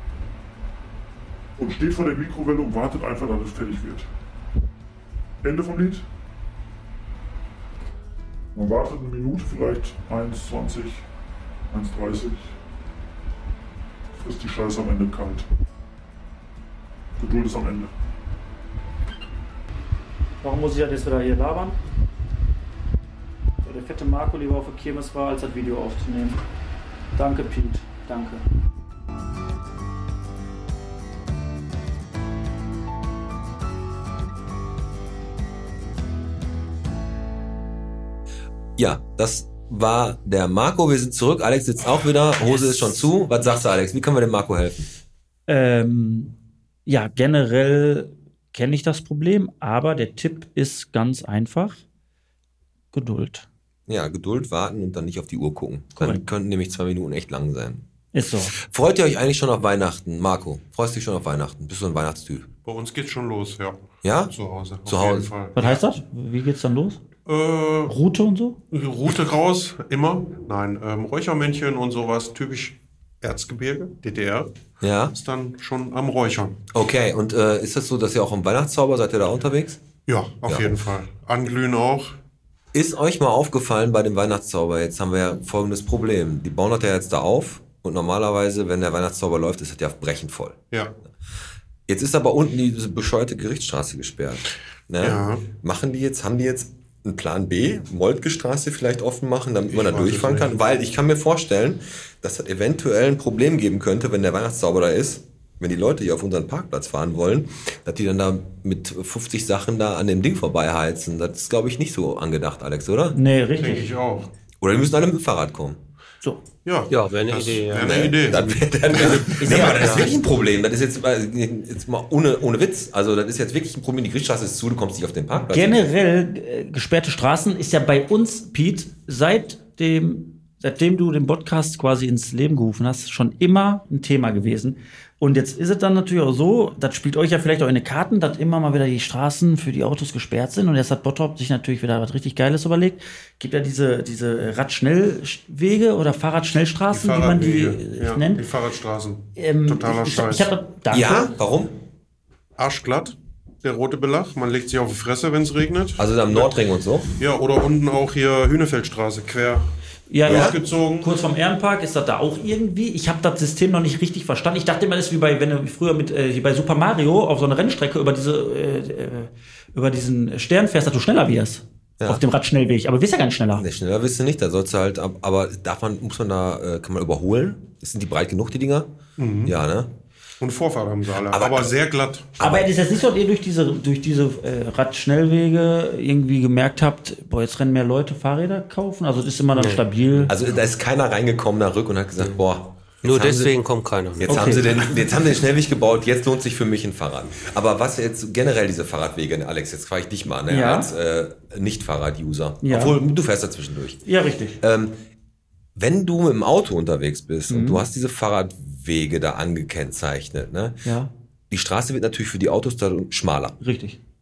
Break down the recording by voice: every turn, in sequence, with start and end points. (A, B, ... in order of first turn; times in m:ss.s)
0:01.6-0:04.1 A
0:05.4-0:06.0 A
0:08.5-0:11.0 A
0:11.7-0:12.6 A
0:14.2-0:15.5 A
0:17.2-0:17.9 A
0:20.4-0:21.8 B
0:23.6-0:26.4 B
0:27.1-0:28.4 B
0:38.8-0:44.9 C
0:42.4-0:42.9 B
0:45.5-0:46.3 B
0:46.8-0:51.8 B
0:52.9-0:53.5 B
0:53.9-0:57.8 C
0:56.0-0:56.2 B
0:58.1-0:58.5 B
0:58.5-1:02.5 C
1:02.6-1:05.8 D
1:04.0-1:04.3 C
1:04.8-1:05.3 C
1:05.6-1:07.0 B
1:07.2-1:08.0 D
1:07.9-1:08.6 B
1:08.7-1:14.5 D
1:14.8-1:15.1 C
1:15.1-1:16.6 D
1:16.7-1:19.8 C
1:20.1-1:22.2 D
1:20.4-1:20.7 C
1:22.7-1:30.6 C
1:31.9-1:53.2 C
1:35.0-1:35.4 D
1:39.7-1:40.6 D
1:53.1-1:53.9 B
1:53.6-1:54.3 D
1:54.6-1:55.8 C
1:56.6-1:59.4 D
1:56.9-1:58.2 E
1:57.8-2:05.8 C
1:59.3-2:00.1 B
2:05.4-2:28.4 B
2:26.9-2:30.5 D
2:29.4-2:31.3 B
2:30.9-2:31.8 C
2:32.6-2:36.6 D
2:36.0-2:37.1 C
2:37.2-2:39.7 D
2:40.1-2:53.6 B
2:40.2-2:41.1 D
2:40.3-2:40.6 C
2:53.5-2:58.9 C
2:59.2-2:59.5 D
2:59.4-2:59.9 C
3:00.4-3:02.3 D
3:01.3-3:01.7 C
3:02.4-3:02.7 C
3:02.4-3:10.4 B
3:09.5-3:09.8 E
3:10.3-3:13.5 C
3:13.0-3:14.5 E
3:14.2-3:24.0 C
3:14.2-3:14.7 B
3:20.5-3:20.9 B
3:22.6-3:23.0 B
3:24.0-3:24.6 B
3:24.6-3:25.0 C
3:25.7-3:30.8 C
3:27.5-3:27.8 B
3:30.8-3:31.1 B
3:31.5-3:33.6 C
3:33.6-3:34.0 B